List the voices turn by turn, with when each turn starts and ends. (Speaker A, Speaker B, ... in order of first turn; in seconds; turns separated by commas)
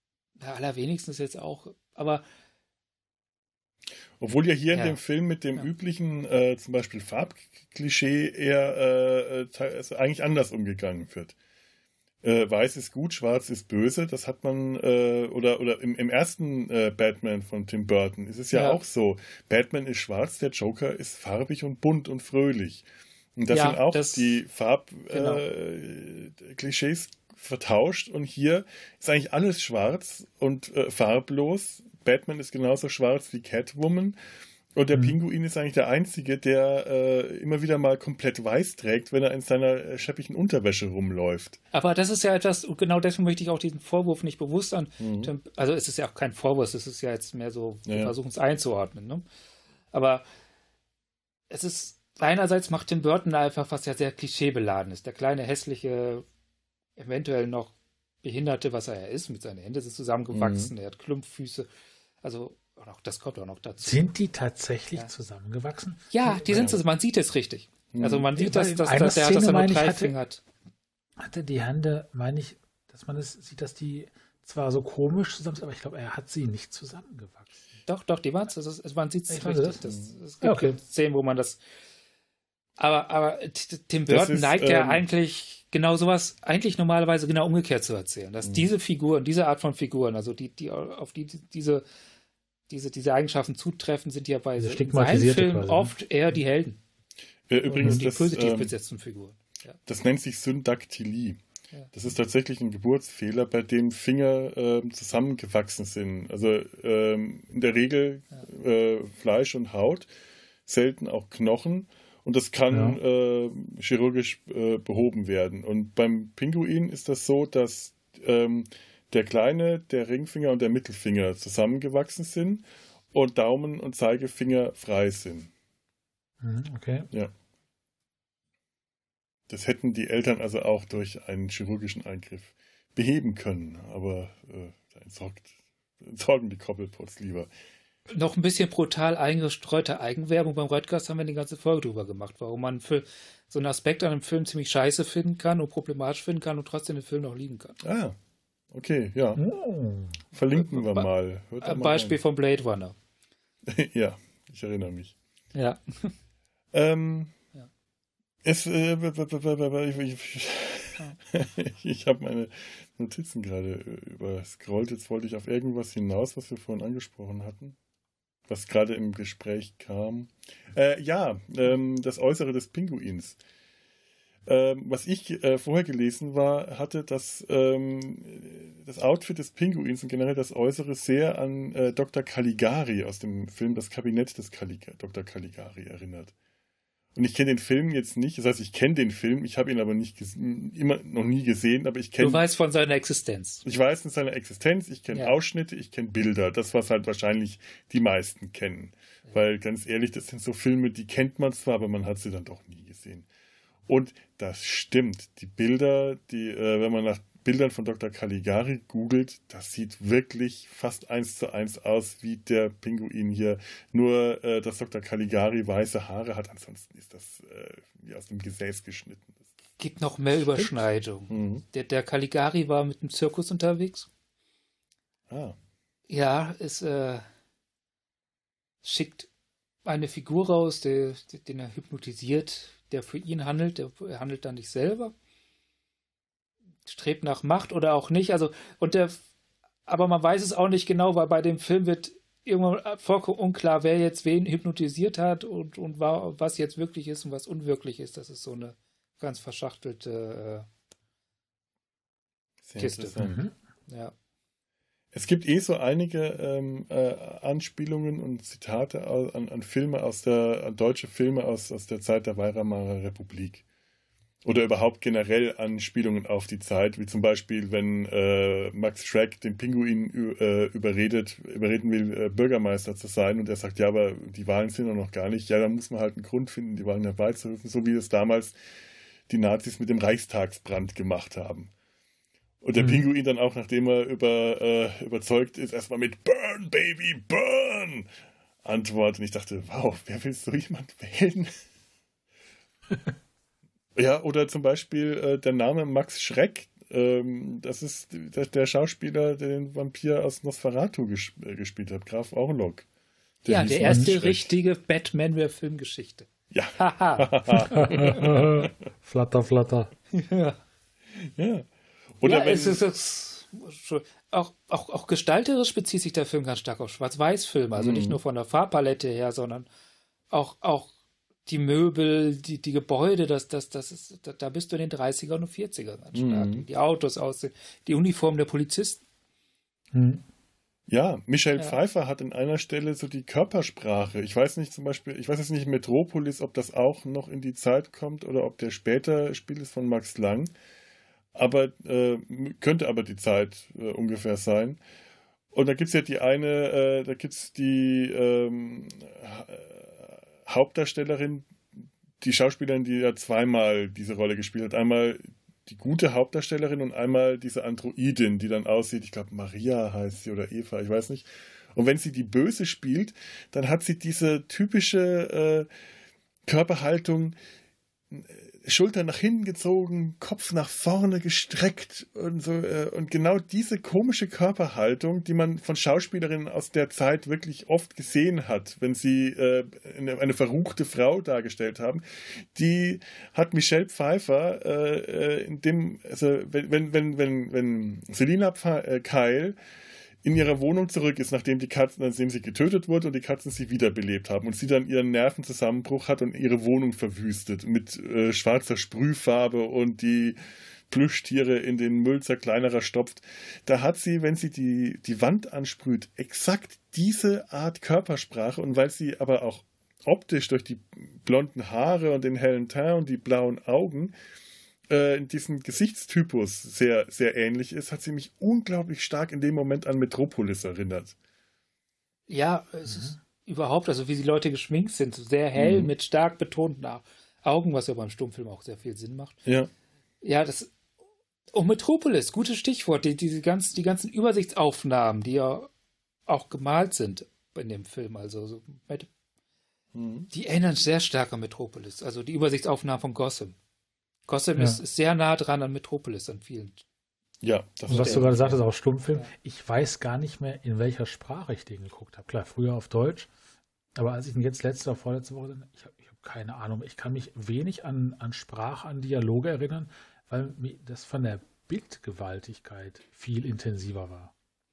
Speaker A: 0.4-2.2, Speaker B: 4.2-11.3, Speaker A: 4.7-5.0, Speaker B: 12.2-22.9, Speaker A: 18.5-18.8, Speaker B: 23.4-34.2, Speaker A: 23.5-24.4, Speaker A: 25.1-25.4, Speaker B: 34.8-41.6, Speaker A: 41.7-49.2, Speaker B: 45.0-45.3, Speaker B: 47.9-48.1, Speaker A: 49.9-50.2, Speaker A: 51.5-56.2, Speaker A: 57.0-61.7, Speaker B: 60.3-60.7, Speaker A: 62.2-64.1, Speaker C: 63.8-66.8, Speaker A: 66.1-70.4, Speaker B: 66.5-66.8, Speaker B: 67.9-68.3, Speaker C: 68.3-70.2, Speaker C: 71.2-77.5, Speaker A: 77.9-81.6, Speaker C: 79.3-79.8, Speaker B: 79.9-80.1, Speaker C: 80.4-80.8, Speaker A: 82.8-91.8, Speaker B: 84.1-85.0, Speaker A: 92.7-96.8, Speaker C: 94.6-95.9, Speaker B: 97.5-98.7, Speaker A: 97.7-99.8, Speaker B: 99.9-101.4, Speaker B: 101.9-110.1, Speaker B: 110.7-125.5, Speaker C: 112.7-113.0, Speaker C: 126.4-127.1, Speaker B: 129.5-137.5, Speaker A: 138.1-147.8, Speaker B: 147.8-148.2, Speaker B: 148.7-149.4, Speaker C: 149.4-150.2, Speaker B: 150.3-152.2, Speaker A: 150.6-151.1, Speaker A: 151.6-153.0, Speaker B: 153.7-155.2, Speaker A: 155.5-156.1, Speaker B: 156.7-157.3, Speaker B: 158.4-167.8, Speaker B: 168.5-173.4, Speaker B: 174.5-186.3, Speaker B: 187.2-192.4, Speaker A: 192.2-193.6, Speaker B: 193.6-203.3, Speaker B: 203.9-219.4, Speaker A: 219.8-224.1, Speaker B: 221.3-221.6, Speaker B: 225.3-225.6, Speaker A: 226.1-227.2, Speaker A: 228.8-229.3, Speaker A: 229.9-235.1, Speaker A: 236.8-239.2, Speaker A: 239.9-250.7, Speaker B: 252.7-253.5, Speaker A: 252.8-253.2, Speaker C: 253.2-253.5, Speaker A: 253.9-254.1, Speaker B: 255.1-263.6, Speaker B: 264.4-278.6, Speaker B: 279.3-281.7, Speaker B: 282.6-288.1, Speaker C: 282.8-283.1, Speaker B: 288.6-291.5, Speaker B: 294.0-302.9, Speaker B: 303.4-304.5, Speaker A: 303.5-306.3, Speaker B: 306.5-308.7, Speaker A: 306.8-307.3, Speaker C: 307.6-309.9, Speaker A: 310.1-310.6, Speaker B: 311.2-311.7, Speaker B: 312.2-312.8, Speaker A: 312.2-319.7, Speaker B: 317.8-318.2, Speaker A: 320.3-320.9, Speaker A: 321.5-329.0, Speaker B: 326.1-326.7, Speaker C: 329.9-330.2, Speaker B: 330.9-340.5, Speaker B: 341.4-344.8, Speaker B: 345.5-351.5, Speaker B: 352.2-365.7, Speaker B: 366.5-367.4, Speaker B: 368.1-389.6, Speaker B: 390.2-400.4, Speaker B: 400.9-414.1, Speaker B: 414.9-421.1, Speaker A: 422.3-429.4, Speaker C: 422.9-423.1, Speaker B: 425.6-425.9, Speaker B: 429.4-429.7, Speaker A: 430.2-430.7, Speaker A: 431.5-435.7, Speaker A: 436.3-439.1, Speaker B: 439.9-440.3, Speaker A: 440.3-443.6, Speaker A: 444.3-446.8, Speaker B: 447.4-448.6, Speaker C: 447.9-453.3, Speaker A: 447.9-448.5, Speaker C: 454.0-464.3